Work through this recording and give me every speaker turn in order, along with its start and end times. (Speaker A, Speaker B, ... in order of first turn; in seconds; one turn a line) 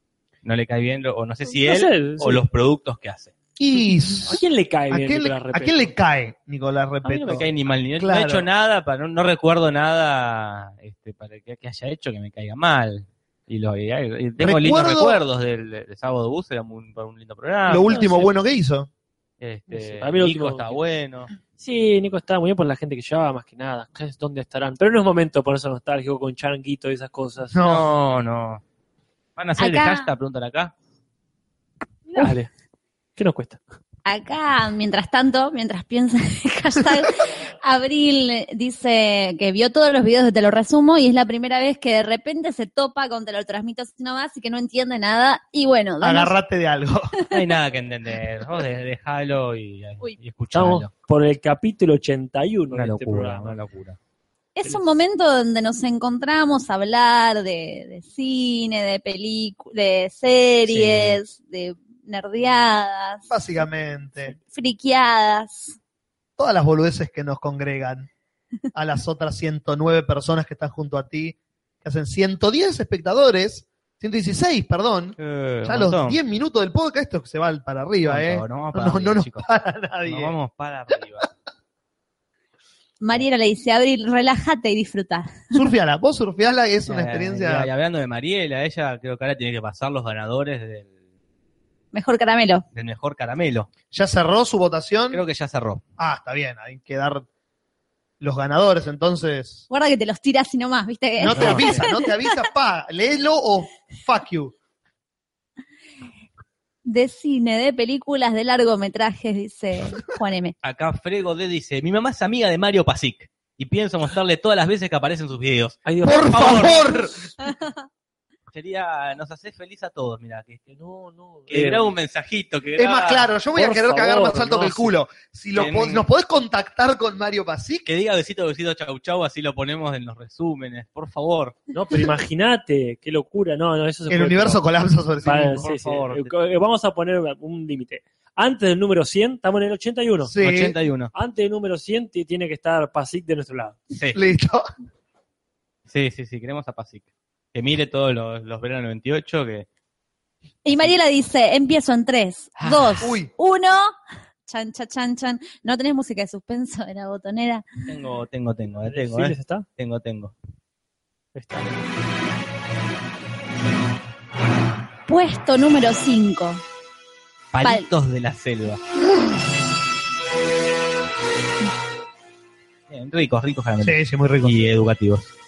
Speaker A: 0.4-3.3
Speaker B: 1.6-2.4
Speaker C: 3.6-7.5
Speaker B: 4.2-5.9
Speaker A: 7.1-18.1
Speaker C: 8.0-8.5
Speaker C: 14.4-15.2
Speaker C: 17.7-18.9
Speaker B: 17.9-18.3
Speaker A: 19.4-21.3
Speaker B: 19.7-20.7
Speaker B: 21.6-27.6
Speaker C: 27.5-27.9
Speaker A: 27.6-28.6
Speaker A: 29.4-30.7
Speaker D: 29.6-30.1
Speaker B: 32.2-32.5
Speaker B: 33.2-33.6
Speaker D: 34.0-46.3
Speaker C: 46.0-47.1
Speaker A: 47.3-50.9
Speaker B: 50.5-53.6
Speaker A: 52.7-54.0
Speaker D: 54.6-63.3
Speaker A: 60.7-61.2
Speaker C: 63.3-64.3
Speaker D: 64.5-65.8
Speaker C: 66.4-68.1
Speaker C: 68.7-80.3
Speaker A: 75.2-76.2
Speaker A: 78.0-79.5
Speaker A: 80.0-81.3
Speaker D: 83.0-85.6
Speaker C: 85.5-87.7
Speaker A: 86.9-90.9
Speaker D: 91.9-92.6
Speaker A: 92.7-93.7
Speaker C: 93.9-95.2
Speaker A: 95.1-95.8
Speaker C: 96.0-97.3
Speaker C: 98.2-99.6
Speaker D: 99.7-102.1
Speaker C: 101.2-104.5
Speaker A: 101.3-101.9
Speaker D: 106.8-110.5
Speaker A: 110.6-117.3
Speaker B: 115.8-116.8
Speaker C: 116.0-117.2
Speaker A: 118.5-120.6
Speaker B: 120.7-122.0
Speaker A: 121.5-123.3
Speaker C: 122.8-127.9
Speaker B: 123.5-124.9
Speaker A: 125.5-126.0
Speaker A: 127.9-131.6
Speaker B: 131.7-134.6
Speaker C: 134.1-135.7
Speaker B: 135.2-140.3
Speaker A: 135.6-136.3
Speaker C: 140.2-140.8
Speaker A: 140.4-141.1
Speaker B: 141.1-143.8
Speaker A: 143.9-144.2
Speaker C: 144.1-144.7
Speaker A: 145.9-149.7
Speaker D: 150.7-153.9
Speaker A: 152.6-153.0
Speaker C: 153.0-153.3
Speaker D: 154.5-157.7
Speaker A: 157.9-160.3
Speaker B: 158.8-159.7
Speaker B: 161.3-161.7
Speaker D: 165.1-166.6
Speaker A: 167.5-168.8
Speaker D: 167.6-167.9
Speaker A: 172.9-175.3
Speaker C: 173.8-174.7